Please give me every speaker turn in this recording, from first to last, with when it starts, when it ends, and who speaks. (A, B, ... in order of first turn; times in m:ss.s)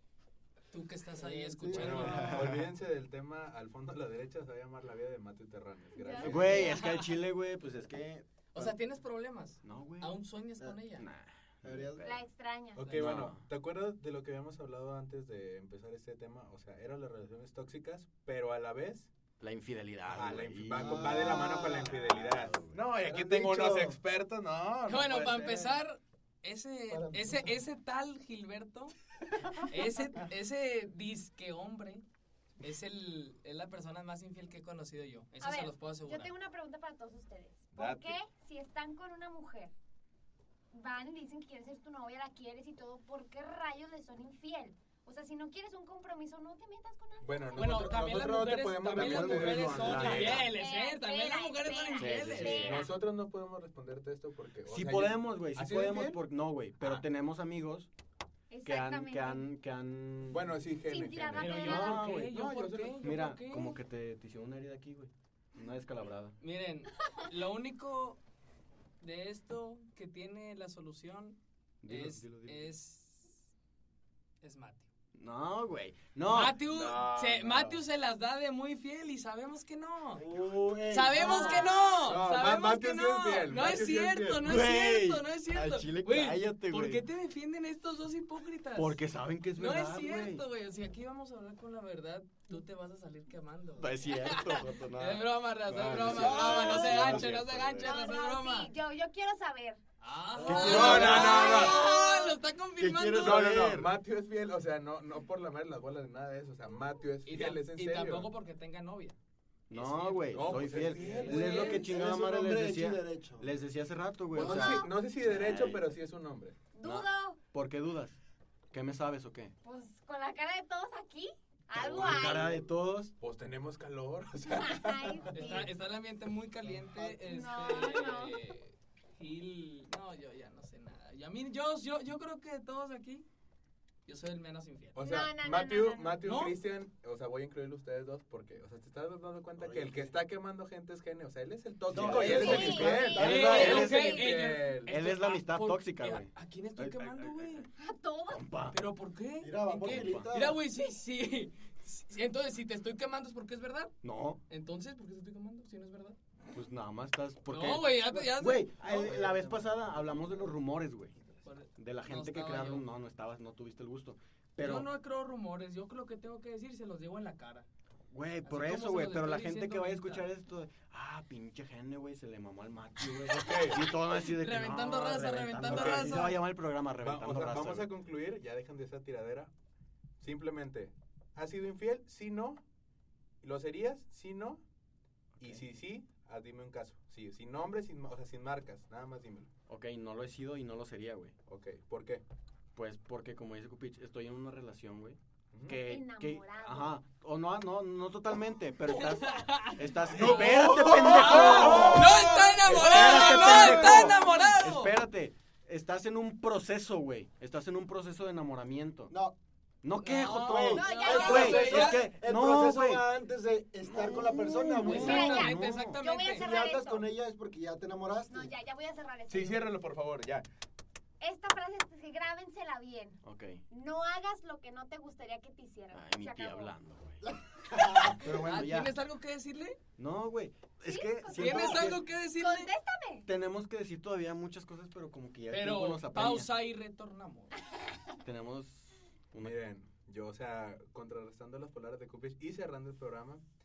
0:00.7-0:02.5 A
0:01.2-0:02.6 B
0:01.7-0:06.8 C
0:02.0-0:02.6 D
0:05.9-0:07.0 E
0:06.2-0:08.8 D
0:06.5-0:07.1 A
0:08.5-0:11.1 A
0:09.6-0:10.2 D
0:11.0-0:12.2 D
0:11.6-0:12.2 B
0:12.0-0:13.0 E
0:12.8-0:19.1 C
0:12.9-0:13.2 A
0:12.9-0:13.5 D
0:19.4-0:22.8 D
0:20.1-0:25.8 C
0:20.7-0:22.2 B
0:23.0-0:24.0 B
0:24.9-0:28.9 A
0:26.9-0:27.5 B
0:29.6-0:32.0 A
0:32.6-0:36.3 A
0:35.4-0:39.7 E
0:37.7-0:38.2 C
0:40.7-0:47.8 E
0:47.2-0:50.5 C
0:47.6-0:52.9 A
0:48.9-0:50.5 D
0:50.5-0:52.9 E
0:52.0-0:52.8 D
0:52.6-0:56.2 C
0:54.7-0:57.9 D
0:56.8-0:57.0 C
0:58.5-0:59.5 E
0:58.6-1:00.6 D
1:00.3-1:01.7 C
1:00.9-1:02.0 E
1:01.4-1:03.8 A
1:01.6-1:02.4 D
1:02.2-1:03.1 C
1:03.0-1:06.4 D
1:06.4-1:08.2 A
1:09.0-1:13.5 A
1:11.8-1:12.7 D
1:14.4-1:14.9 A
1:15.2-1:16.7 D
1:16.3-1:20.3 A
1:16.7-1:17.8 C
1:20.2-1:21.7 B
1:20.9-1:29.0 A
1:21.2-1:22.2 E
1:22.0-1:24.4 C
1:24.4-1:27.0 D
1:28.8-1:30.4 D
1:29.6-1:38.7 A
1:33.8-1:37.9 D
1:35.9-1:36.8 C
1:37.8-1:39.8 E
1:40.0-1:43.6 A
1:40.4-1:41.8 D
1:40.5-1:41.8 C
1:40.8-1:42.4 E
1:42.8-1:43.9 D
1:43.2-1:48.3 C
1:47.2-1:49.2 A
1:49.7-1:55.8 D
1:49.7-1:51.9 A
1:50.3-1:51.9 C
1:50.6-1:53.5 B
1:54.3-1:56.6 C
1:54.3-1:54.9 E
1:56.7-1:57.4 E
1:56.8-1:58.2 D
1:58.7-1:59.5 D
1:59.6-2:02.6 E
2:01.8-2:03.2 D
2:01.8-2:02.5 C
2:03.2-2:05.7 C
2:04.5-2:05.7 E
2:05.3-2:13.2 A
2:07.2-2:08.4 E
2:14.1-2:15.0 A
2:14.9-2:24.9 C
2:15.0-2:16.2 E
2:16.2-2:16.6 A
2:19.6-2:20.2 B
2:21.9-2:27.7 D
2:21.9-2:23.7 B
2:22.2-2:24.4 E
2:23.2-2:27.7 A
2:27.8-2:28.5 E
2:28.3-2:28.8 D
2:28.7-2:34.0 A
2:29.4-2:30.6 B
2:29.8-2:30.3 D
2:34.0-2:34.4 D
2:34.5-2:36.2 A
2:36.5-2:41.2 D
2:37.5-2:38.7 A
2:38.8-2:40.0 B
2:41.4-2:42.9 A
2:41.8-2:44.9 D
2:44.6-2:47.7 A
2:48.1-2:57.9 D
2:48.4-2:50.3 A
2:53.3-2:53.9 C
2:53.8-2:56.4 A
2:55.6-2:56.3 C
2:57.0-2:59.5 C
3:00.2-3:02.6 C
3:03.4-3:04.6 C
3:05.4-3:05.6 D
3:05.4-3:09.5 C
3:09.7-3:11.4 D
3:11.5-3:12.2 C
3:12.7-3:29.1 D
3:15.5-3:15.8 C
3:15.8-3:17.0 E
3:18.9-3:25.0 A
3:20.1-3:23.9 C
3:21.6-3:22.2 B
3:23.0-3:24.3 B
3:29.1-3:29.4 B
3:29.8-3:33.1 D
3:30.0-3:32.1 A
3:30.3-3:35.4 B
3:30.7-3:31.7 E
3:31.3-3:31.9 C
3:33.8-3:36.0 D
3:34.8-3:36.4 A
3:34.9-3:37.1 E
3:36.4-3:38.5 B
3:38.3-3:39.7 E
3:39.3-3:40.5 C
3:41.2-3:46.7 E
3:43.2-3:43.6 D
3:45.9-3:48.9 D
3:47.7-3:48.1 B
3:47.8-3:49.8 A
3:50.0-3:52.0 D
3:50.8-3:53.3 E
3:51.3-3:52.7 A
3:53.3-3:56.5 D
3:55.5-3:57.6 A
3:58.2-3:59.5 D
3:59.4-4:03.4 C